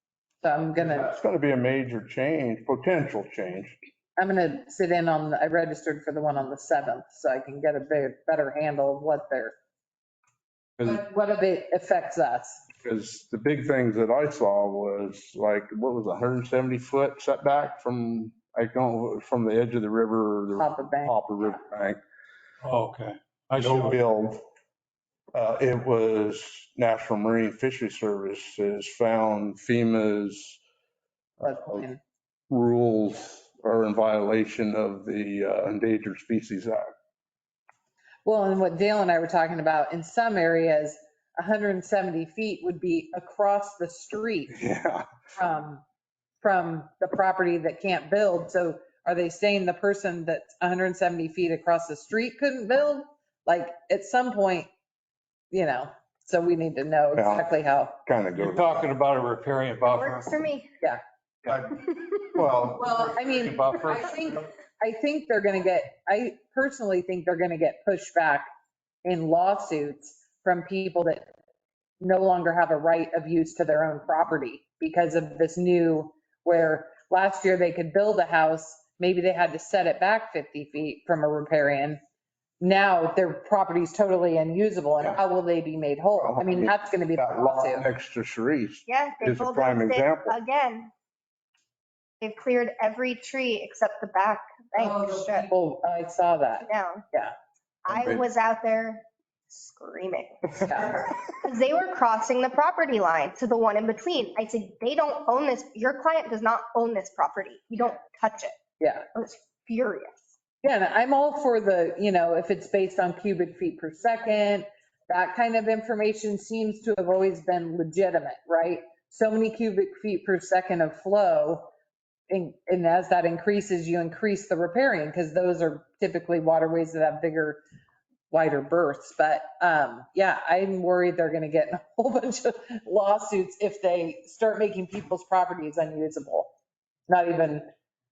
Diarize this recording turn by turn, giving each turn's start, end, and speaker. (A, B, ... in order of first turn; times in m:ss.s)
0:00.4-0:01.1 A
0:00.8-0:03.8 B
0:04.2-0:09.5 A
0:10.8-0:12.6 A
0:12.8-0:22.0 B
0:20.6-0:21.2 A
0:22.6-0:24.0 C
0:23.6-0:24.4 B
0:25.3-0:30.6 B
0:31.4-0:31.8 B
0:31.4-0:32.0 A
0:32.5-0:36.9 B
0:38.2-0:44.5 A
0:44.5-0:45.1 B
0:45.4-0:45.8 A
0:46.4-0:54.7 A
0:55.5-0:58.0 A
0:57.2-0:57.5 B
0:58.0-0:58.9 B
0:58.4-1:00.3 C
0:59.9-1:00.7 D
1:01.4-1:03.2 B
1:02.9-1:08.4 A
1:03.4-1:04.0 C
1:09.0-1:11.3 A
1:12.0-1:22.0 A
1:22.6-1:27.9 A
1:26.2-1:30.4 B
1:28.9-1:30.9 D
1:32.2-1:35.5 D
1:34.8-1:37.3 A
1:36.6-1:37.0 D
1:37.8-1:48.5 D
1:37.9-1:38.2 B
1:40.6-1:41.0 A
1:48.8-1:49.0 A
1:49.1-1:50.3 D
1:50.6-2:01.6 A
2:02.3-2:07.6 A
2:08.3-2:16.5 A
2:17.1-2:17.7 A